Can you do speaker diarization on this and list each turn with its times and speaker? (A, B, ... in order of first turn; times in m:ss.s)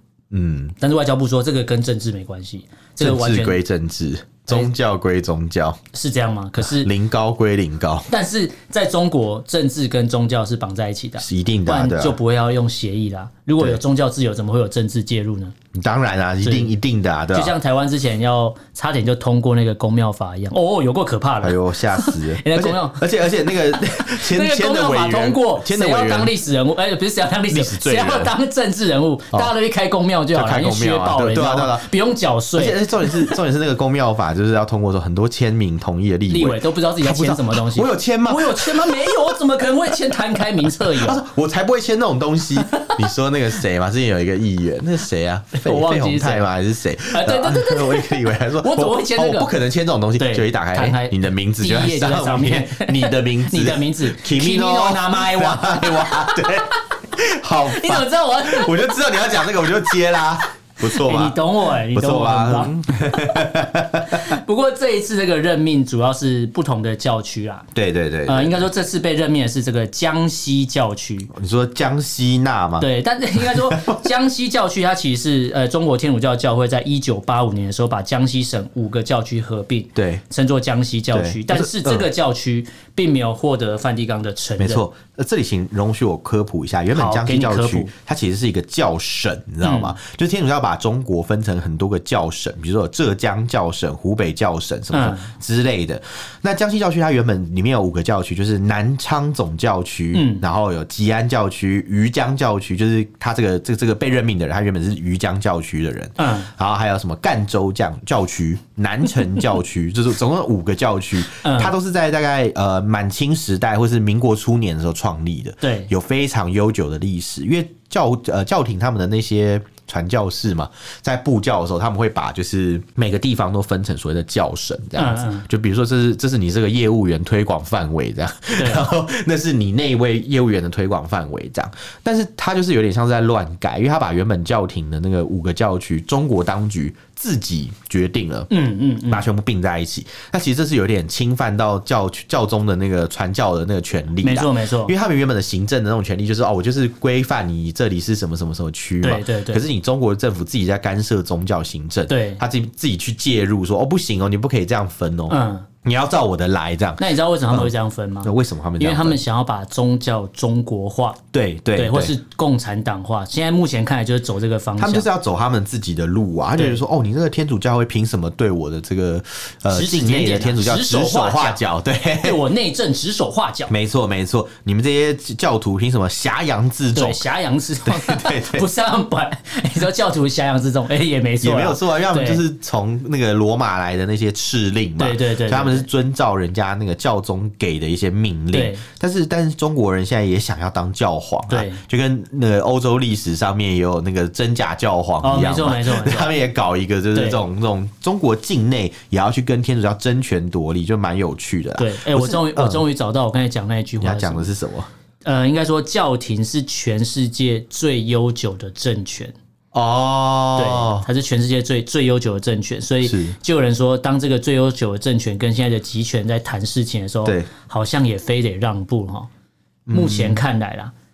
0:00.3-0:00.8 A
0:00.8-0:03.6 B
0:03.0-0:05.8 A
0:05.9-0:06.9 B
0:06.6-0:08.1 A
0:08.1-0:15.5 B
0:11.2-0:12.2 A
0:15.7-0:17.5 A
0:16.4-0:16.7 B
0:17.3-0:23.0 B
0:21.4-0:26.3 A
0:23.7-0:33.3 B
0:27.5-0:28.3 A
0:30.3-0:31.9 A
0:32.5-1:01.4 A
0:36.3-0:41.2 B
0:42.7-0:43.0 B
0:45.6-0:46.5 B
0:47.1-0:49.5 B
0:50.2-0:56.6 B
0:57.6-0:59.1 B
1:00.8-1:07.7 B
1:01.9-1:04.3 A
1:07.7-1:08.7 A
1:08.2-1:11.3 B
1:11.3-1:14.0 A
1:12.8-1:24.8 B
1:19.9-1:20.2 A
1:21.1-1:22.0 A
1:24.6-2:18.5 A
1:26.9-1:27.9 B
1:29.6-1:30.0 B
1:34.9-1:35.3 B
1:40.1-1:40.4 B
1:46.2-1:46.5 B
1:51.4-1:51.7 B
1:55.6-1:55.9 B
2:05.0-2:05.4 B
2:08.6-2:08.9 B
2:18.5-2:19.3 B
2:19.1-2:37.7 A
2:24.2-2:24.9 B
2:29.0-2:29.6 B
2:32.1-2:32.4 B
2:35.3-2:35.7 B
2:37.0-2:41.2 B
2:38.2-2:39.2 A
2:41.3-2:42.1 A
2:41.7-2:45.1 B
2:44.8-2:52.4 A
2:49.7-2:51.6 B
2:52.2-2:53.7 B
2:53.7-2:57.2 A
2:56.9-3:02.4 B
2:57.8-2:58.6 A
3:01.4-3:22.8 A
3:05.0-3:05.9 B
3:08.5-3:08.8 B
3:11.5-3:11.8 B
3:15.2-3:16.3 B
3:17.1-3:17.4 B
3:21.8-3:24.5 B
3:24.0-3:24.9 A
3:25.2-3:29.3 B
3:29.7-3:31.0 A
3:30.6-3:39.3 B
3:33.0-3:33.4 A
3:39.9-3:40.4 A
3:39.9-3:40.9 B